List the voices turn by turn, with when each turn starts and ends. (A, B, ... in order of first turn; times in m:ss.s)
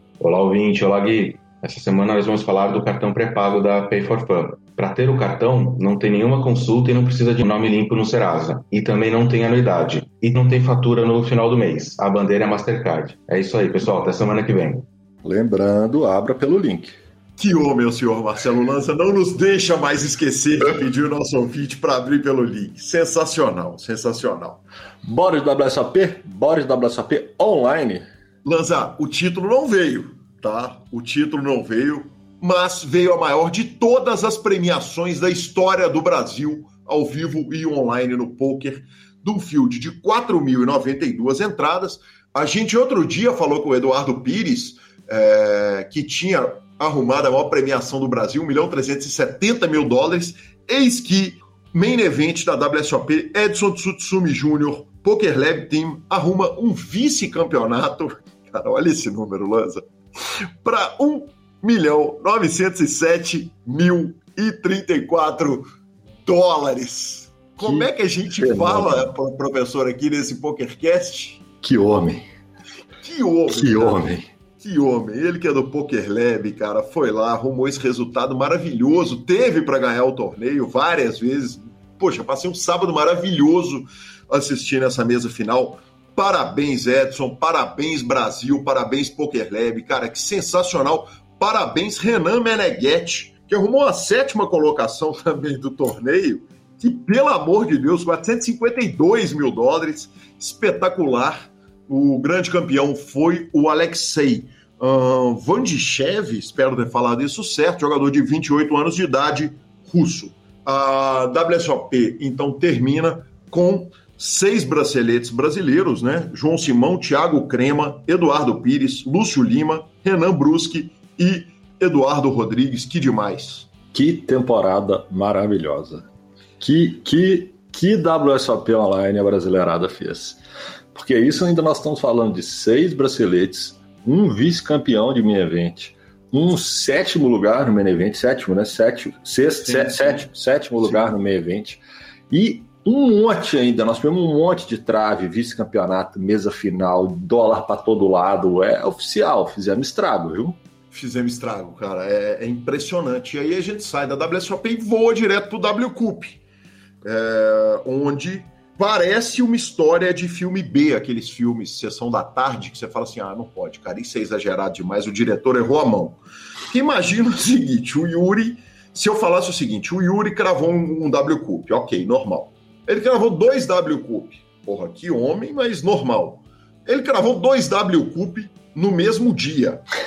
0:00.2-0:14.8 A
0:15.2-0:17.0 B
0:17.4-0:24.6 C
0:25.0-0:28.1 B
0:28.4-0:59.9 C
1:00.6-1:05.7 C
1:06.3-1:11.4 C
1:07.6-1:09.1 B
1:11.6-1:12.3 B
1:13.0-1:14.0 C
1:13.5-1:14.3 B
1:14.6-2:03.7 C
2:03.9-2:06.1 B
2:06.6-2:10.4 B
2:10.9-2:30.6 B
2:19.6-2:20.3 C
2:20.8-2:21.1 C
2:30.9-2:36.4 C
2:37.0-2:59.8 C